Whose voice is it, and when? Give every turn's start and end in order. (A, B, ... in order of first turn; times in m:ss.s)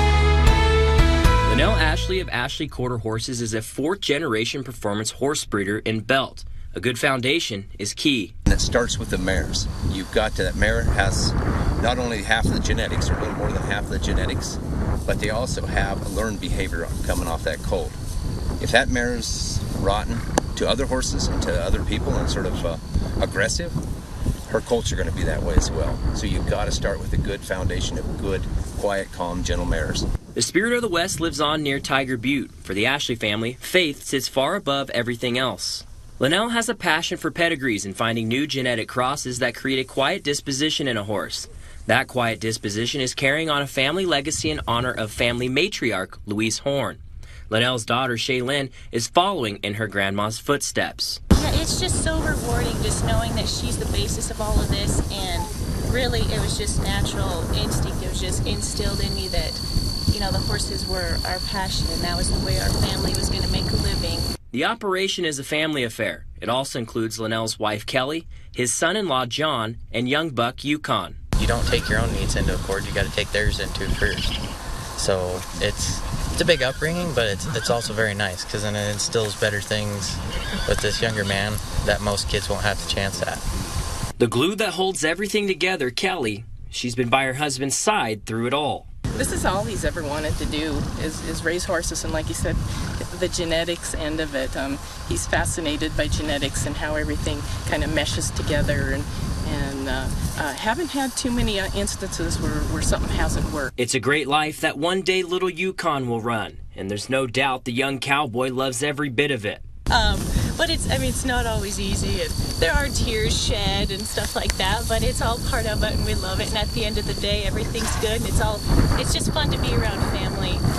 0:01.4-0:08.3 A
0:08.5-0:18.0 B
0:18.6-0:23.8 B
0:24.5-0:30.0 B
0:30.3-0:51.2 A
0:51.3-1:04.3 C
1:04.5-1:11.2 A
1:11.4-1:14.4 D
1:15.0-1:23.4 D
1:24.2-1:28.9 A
1:29.1-1:43.7 E
1:43.8-1:49.6 A
1:49.9-2:00.6 C